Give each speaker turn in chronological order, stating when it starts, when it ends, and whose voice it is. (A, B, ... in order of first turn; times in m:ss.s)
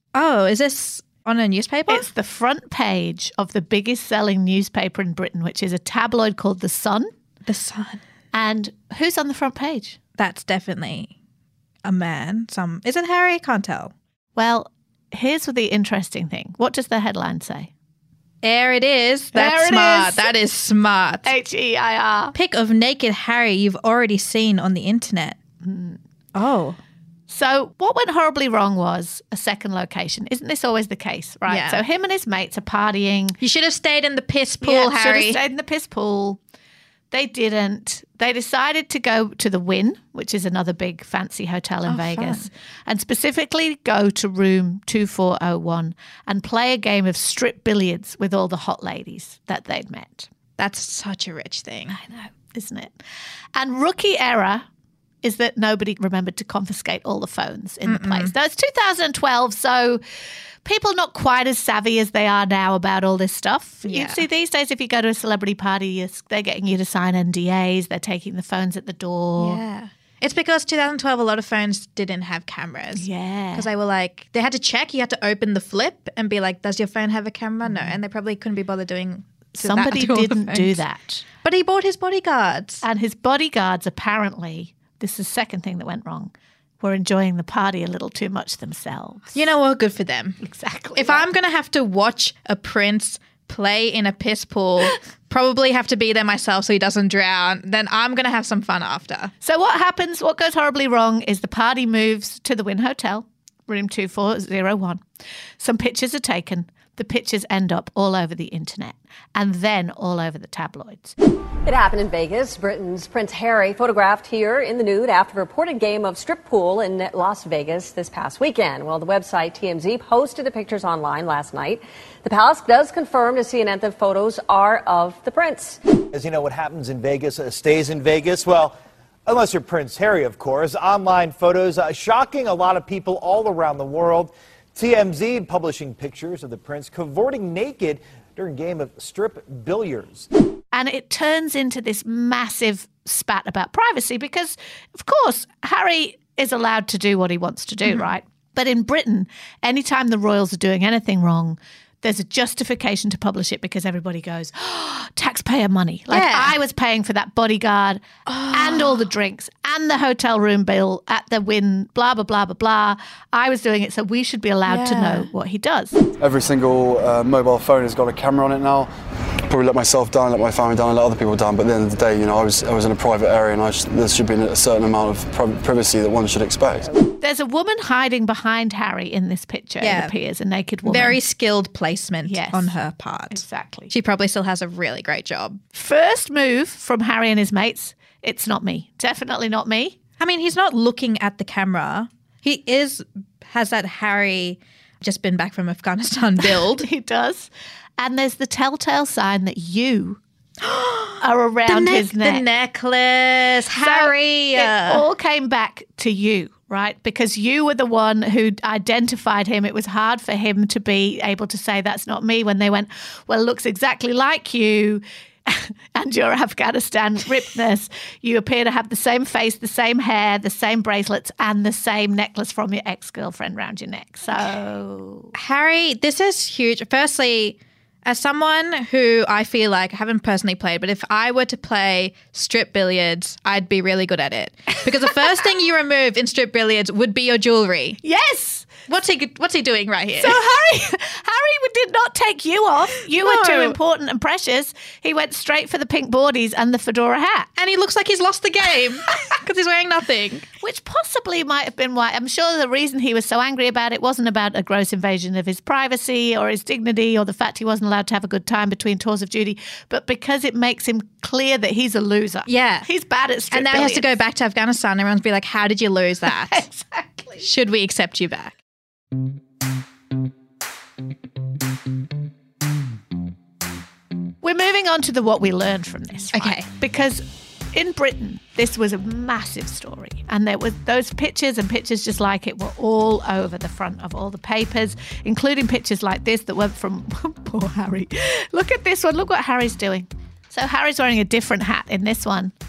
0:00.1-0:02.1 A
0:01.9-0:07.1 B
0:07.5-0:08.0 A
0:08.3-0:10.0 B
0:10.2-0:11.1 A
0:11.8-0:13.9 A
0:14.4-0:17.7 B
0:18.4-0:21.3 A
0:19.3-0:20.3 B
0:21.2-0:22.4 B
0:22.3-0:25.4 A
0:25.6-0:26.0 B
0:26.4-0:26.8 A
0:27.3-0:33.4 B
0:31.5-0:31.8 A
0:33.4-0:35.4 A
0:34.6-0:36.4 B
0:37.1-0:50.3 B
0:41.9-0:42.5 A
0:50.6-0:52.0 A
0:51.9-0:53.0 B
0:53.5-0:54.6 B
0:55.2-1:00.0 B
0:57.8-0:58.3 A
1:00.6-1:09.6 B
1:03.9-1:04.2 A
1:09.4-1:20.8 A
1:13.0-1:13.7 B
1:17.6-1:18.0 B
1:19.5-1:21.2 B
1:21.4-1:22.8 A
1:22.8-1:29.4 B
1:29.3-1:30.4 A
1:30.4-1:31.3 B
1:31.0-1:39.3 A
1:39.4-1:45.0 B
1:45.6-1:51.1 B
1:51.6-2:05.8 C
2:06.1-2:08.8 D
2:09.2-2:20.3 D
2:20.7-2:46.0 B
2:36.1-2:36.5 A
2:38.2-2:39.1 A
2:44.6-2:45.3 A
2:46.2-2:48.9 E
2:49.5-2:56.9 E
2:57.2-3:01.2 B
2:59.8-3:00.1 A
3:00.8-3:05.6 A
3:02.2-3:02.8 B
3:03.3-3:03.9 B
3:05.7-3:10.0 B
3:10.2-3:16.9 A
3:16.4-3:20.2 B
3:20.6-3:25.0 A
3:21.2-3:22.4 B
3:23.8-3:45.3 B
3:45.3-3:58.0 A
3:58.0-3:58.8 B
3:58.9-4:00.4 A
4:00.2-4:07.5 B
4:03.2-4:03.8 A
4:07.6-4:10.5 A
4:10.6-4:24.2 B
4:22.5-4:22.9 A
4:23.5-4:26.6 A
4:26.4-4:27.5 B
4:27.4-4:28.6 A
4:34.4-4:52.5 B
4:36.3-4:36.7 A